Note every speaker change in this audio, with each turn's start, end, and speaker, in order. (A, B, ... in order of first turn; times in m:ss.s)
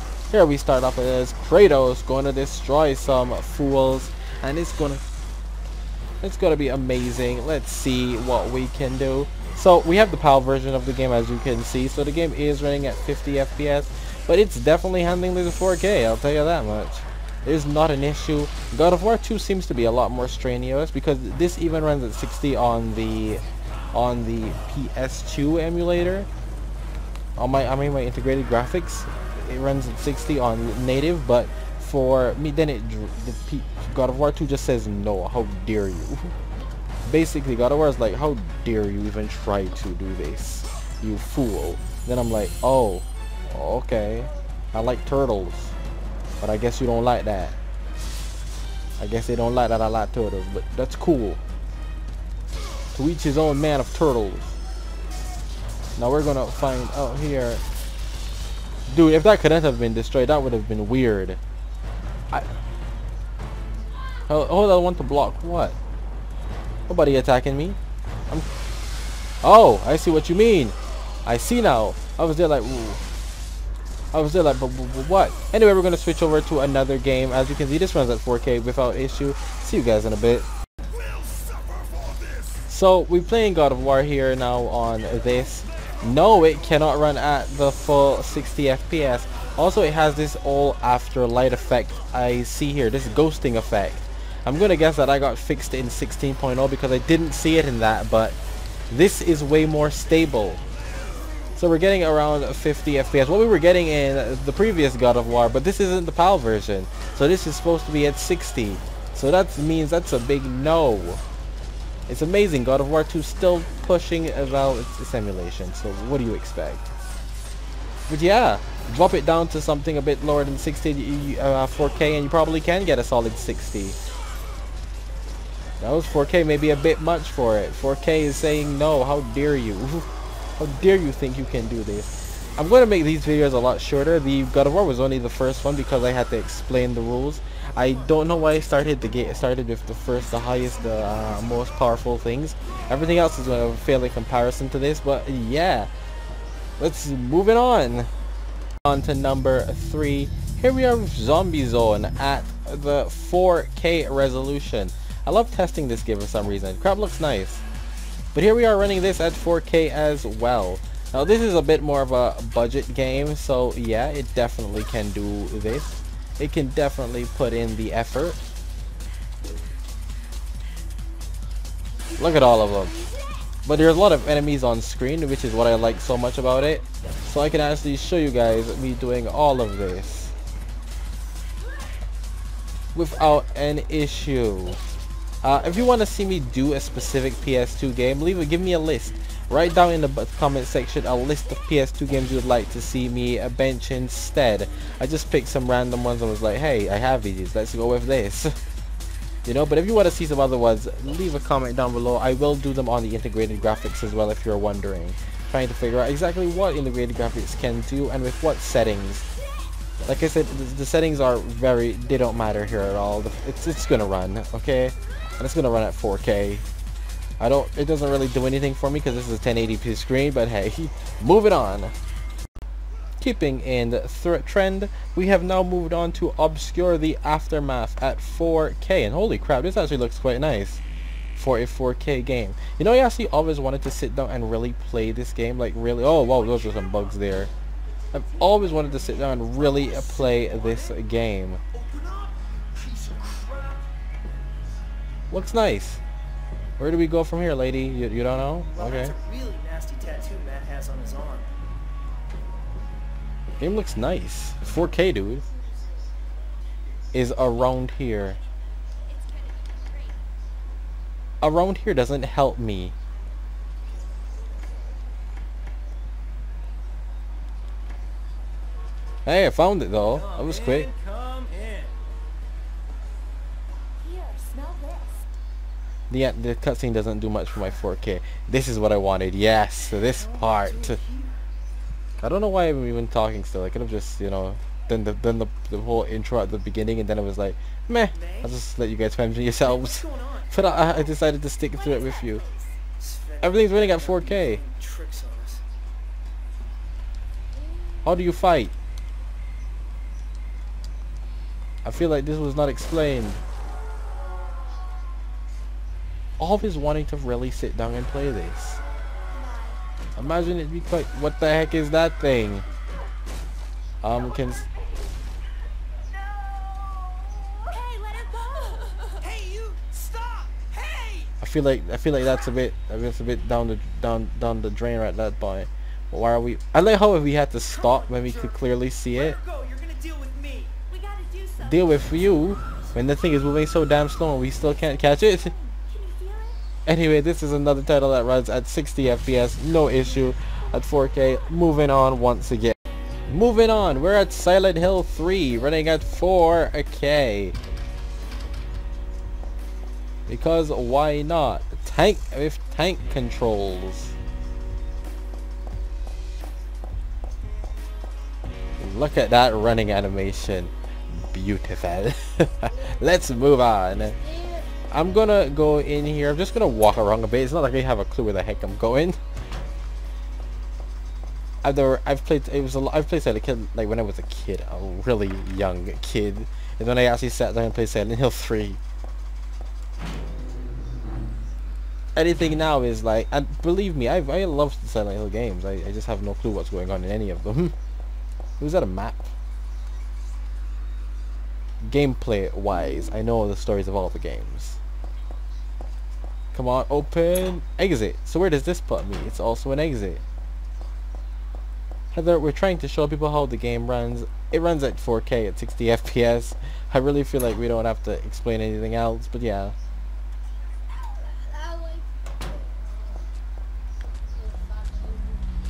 0:00.3-0:05.0 A
0:06.2-0:26.3 A
0:27.4-0:36.3 A
0:37.1-0:45.8 A
0:46.4-0:47.6 A
0:49.0-0:51.4 A
0:52.9-0:54.6 A
0:56.0-0:57.6 A
0:58.9-1:01.4 A
1:04.3-1:05.8 A
1:06.9-1:07.8 A
1:09.4-1:13.0 A
1:14.1-1:20.5 A
1:22.7-1:38.4 A
1:38.9-1:40.6 A
1:41.6-1:51.2 A
1:52.1-1:56.9 A
1:58.1-2:04.0 A
2:05.8-2:25.9 A
2:26.8-2:28.1 A
2:28.8-2:37.6 A
2:38.3-2:48.4 A
2:52.1-2:53.1 B
2:52.2-2:53.0 A
2:53.6-3:00.3 A
3:02.9-3:04.8 A
3:05.4-3:18.6 A
3:19.5-3:29.3 A
3:30.0-3:36.7 A
3:37.4-3:41.9 A
3:43.2-3:50.8 A
3:51.4-3:57.5 A
3:58.1-4:01.6 A
3:58.6-3:59.1 B
3:59.8-4:01.0 C
4:01.7-4:03.9 C
4:05.3-4:06.0 A
4:06.8-4:09.2 A
4:08.8-4:11.5 C
4:13.6-4:15.4 A
4:17.1-4:18.4 A
4:19.1-4:20.2 B
4:21.4-4:22.9 A
4:29.3-4:30.9 A
4:30.9-4:31.9 C
4:34.0-4:35.3 B
4:36.1-4:41.0 A
4:40.2-4:41.3 C
4:42.2-4:52.4 A
4:48.2-4:48.5 C
4:49.6-4:50.6 C
4:51.7-4:52.8 B
4:53.0-4:55.6 C
4:53.4-4:54.6 A
4:58.0-4:58.7 A
5:01.8-5:03.4 A
5:06.4-5:08.8 A
5:09.3-5:09.8 B
5:10.2-5:12.7 A
5:14.0-5:14.6 A
5:16.6-5:19.3 B
5:19.2-5:21.3 C
5:21.4-5:29.4 A
5:27.7-5:28.6 C
5:29.1-5:30.8 C
5:30.9-5:32.1 B
5:31.6-5:35.5 A
5:35.1-5:36.6 B
5:36.9-5:42.8 A
5:43.3-5:47.6 A
5:50.3-5:54.1 A
5:58.8-6:04.2 A
6:04.2-6:04.6 B
6:04.9-6:09.2 A
6:11.6-6:18.8 A
6:22.2-6:27.7 A
6:28.6-6:29.3 A
6:31.8-6:34.8 A
6:36.5-6:40.2 A
6:42.1-6:49.7 A
6:51.0-6:52.0 B
6:54.7-6:55.3 B